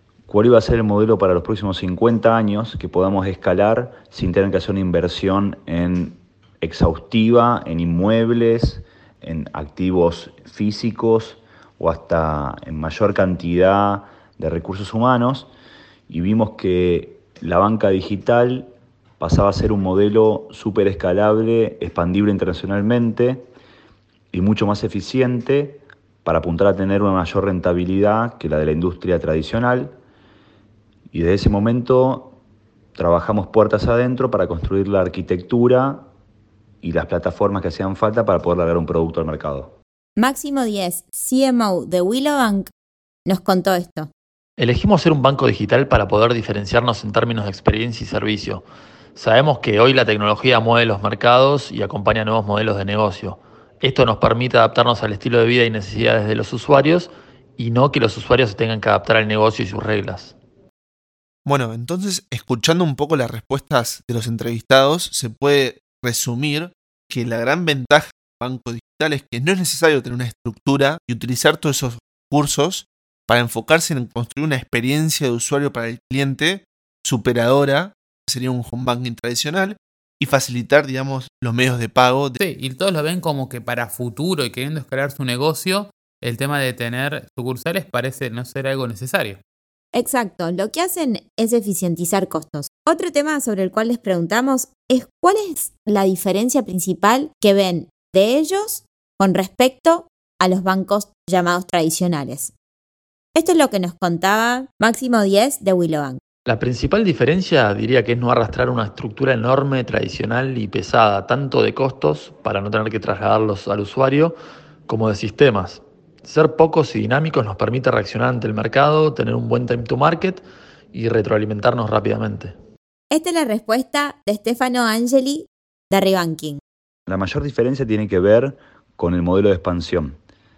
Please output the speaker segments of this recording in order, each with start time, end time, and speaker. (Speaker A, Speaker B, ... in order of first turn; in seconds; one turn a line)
Speaker A: 0.3-15.5
Speaker A: 16.1-23.5
Speaker A: 24.3-30.0
Speaker A: 31.1-32.4
Speaker A: 33.0-36.0
Speaker A: 36.8-39.8
Speaker B: 40.2-42.7
Speaker B: 43.3-44.1
Speaker C: 44.6-60.4
Speaker D: 61.5-82.4
Speaker E: 82.4-89.4
Speaker B: 89.9-102.5
Speaker B: 103.3-106.2
Speaker C: 106.5-122.5
Speaker B: 123.1-126.6
Speaker A: 127.1-130.2